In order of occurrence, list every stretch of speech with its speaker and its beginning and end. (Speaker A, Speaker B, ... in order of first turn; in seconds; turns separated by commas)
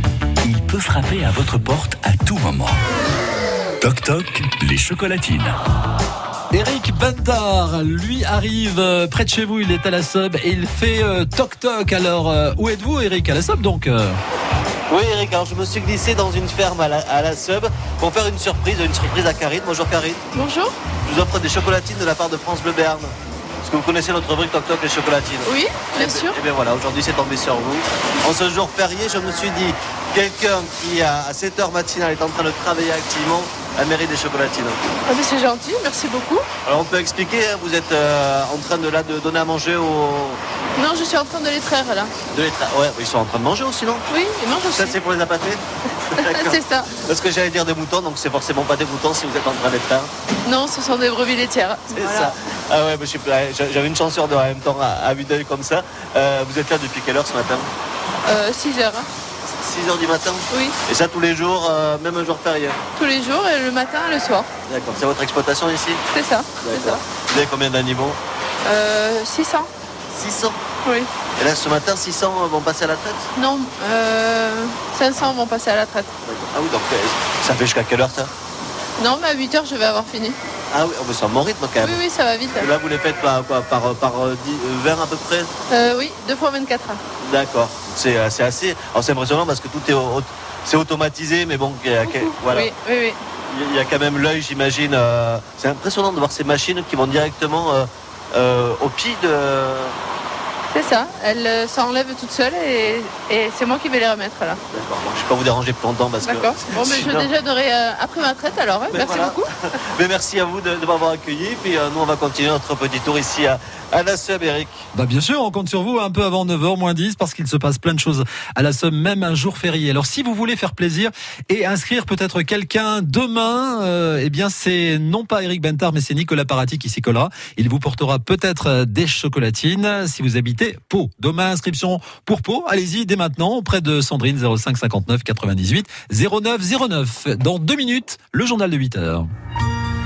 Speaker A: 0.4-2.9, Speaker A: 3.8-5.6, Speaker B: 6.5-14.2, Speaker C: 14.9-20.2, Speaker D: 20.3-20.8, Speaker C: 21.1-34.8, Speaker D: 25.4-26.4, Speaker D: 35.0-36.5, Speaker C: 36.6-40.4, Speaker D: 40.8-42.1, Speaker C: 42.3-44.0, Speaker D: 44.1-45.0, Speaker C: 44.7-45.6, Speaker C: 46.1-50.1, Speaker D: 46.2-46.9, Speaker D: 50.4-52.3, Speaker C: 51.9-57.7, Speaker D: 58.2-59.1, Speaker C: 59.5-62.8, Speaker D: 60.5-60.8, Speaker D: 62.9-64.5, Speaker C: 64.7-66.0, Speaker D: 66.1-67.0, Speaker C: 66.6-68.2, Speaker D: 68.6-69.7, Speaker C: 70.1-70.6, Speaker D: 70.8-71.1, Speaker C: 71.4-73.3, Speaker D: 73.3-76.1, Speaker C: 76.2-78.3, Speaker D: 79.0-80.4, Speaker C: 80.7-82.0, Speaker D: 81.8-82.7, Speaker C: 82.6-85.5, Speaker D: 85.7-87.0, Speaker C: 87.2-92.7, Speaker D: 92.0-93.2, Speaker C: 93.5-99.9, Speaker D: 100.7-104.6, Speaker C: 104.7-107.3, Speaker D: 106.2-109.5, Speaker C: 108.9-114.8, Speaker B: 114.9-139.3